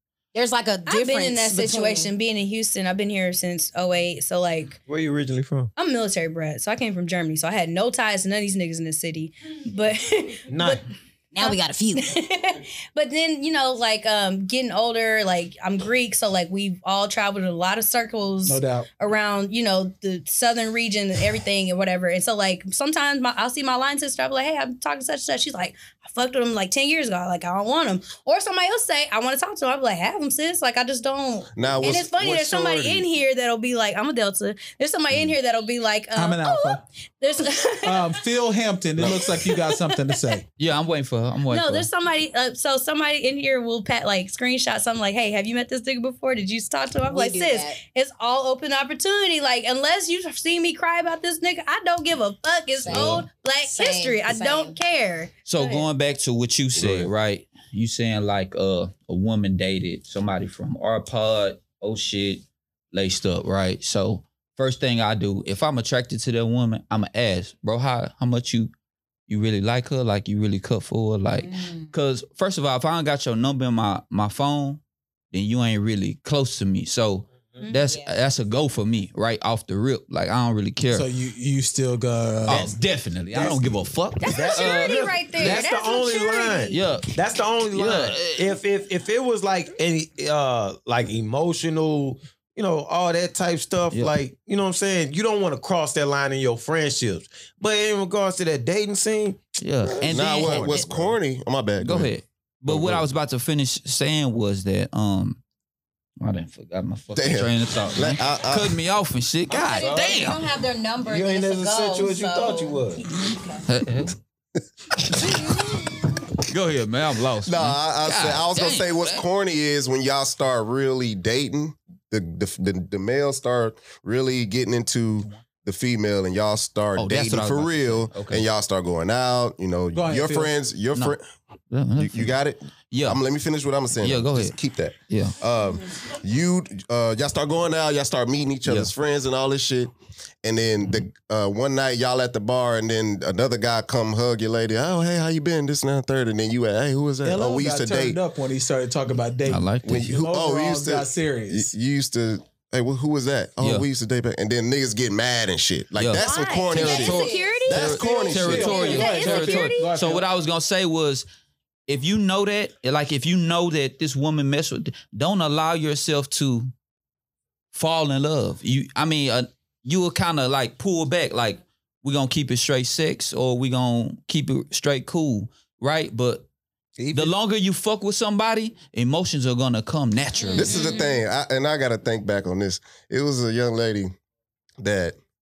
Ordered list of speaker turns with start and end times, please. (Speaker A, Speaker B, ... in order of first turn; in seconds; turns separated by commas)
Speaker A: 0.3-2.1, Speaker B: 0.9-4.8, Speaker C: 4.9-5.7, Speaker B: 5.8-10.8, Speaker C: 10.5-10.8, Speaker A: 11.3-12.2, Speaker B: 11.4-38.2, Speaker D: 18.4-18.9, Speaker E: 31.6-33.0, Speaker C: 32.2-33.0, Speaker D: 36.1-36.8, Speaker D: 37.8-40.4, Speaker B: 39.2-40.4, Speaker F: 40.6-41.9, Speaker B: 41.5-55.9, Speaker A: 47.0-47.8, Speaker A: 52.8-54.8, Speaker F: 52.9-53.3, Speaker F: 55.5-68.7, Speaker E: 56.8-57.1, Speaker F: 69.3-74.8, Speaker A: 71.4-71.9, Speaker F: 75.3-81.1, Speaker A: 77.6-78.2, Speaker D: 80.9-82.8, Speaker F: 82.5-85.4, Speaker C: 83.3-101.2, Speaker B: 84.2-86.8, Speaker A: 84.6-85.7, Speaker F: 86.6-87.1, Speaker F: 87.7-88.6, Speaker F: 99.6-100.9, Speaker E: 100.1-102.1, Speaker F: 101.8-105.4, Speaker E: 102.7-103.0, Speaker F: 106.2-110.4, Speaker E: 107.2-108.8, Speaker A: 109.5-113.7, Speaker C: 109.5-110.2, Speaker C: 111.1-113.1, Speaker F: 113.7-114.2, Speaker F: 116.4-119.2, Speaker E: 117.4-131.2, Speaker F: 127.0-128.5, Speaker D: 129.9-130.5, Speaker F: 131.7-132.4, Speaker E: 132.0-148.2, Speaker F: 132.9-133.2, Speaker F: 134.0-134.6, Speaker F: 135.1-135.4, Speaker D: 147.2-151.7, Speaker F: 149.5-150.1, Speaker E: 149.8-158.8, Speaker F: 153.6-153.9, Speaker F: 156.0-161.2, Speaker B: 156.2-158.0, Speaker A: 156.7-157.7, Speaker D: 158.0-160.3, Speaker B: 158.6-160.0, Speaker F: 161.9-166.7, Speaker F: 167.7-176.5, Speaker C: 177.0-177.3, Speaker F: 177.1-180.8, Speaker B: 180.5-181.1, Speaker E: 180.5-184.2, Speaker E: 184.8-185.2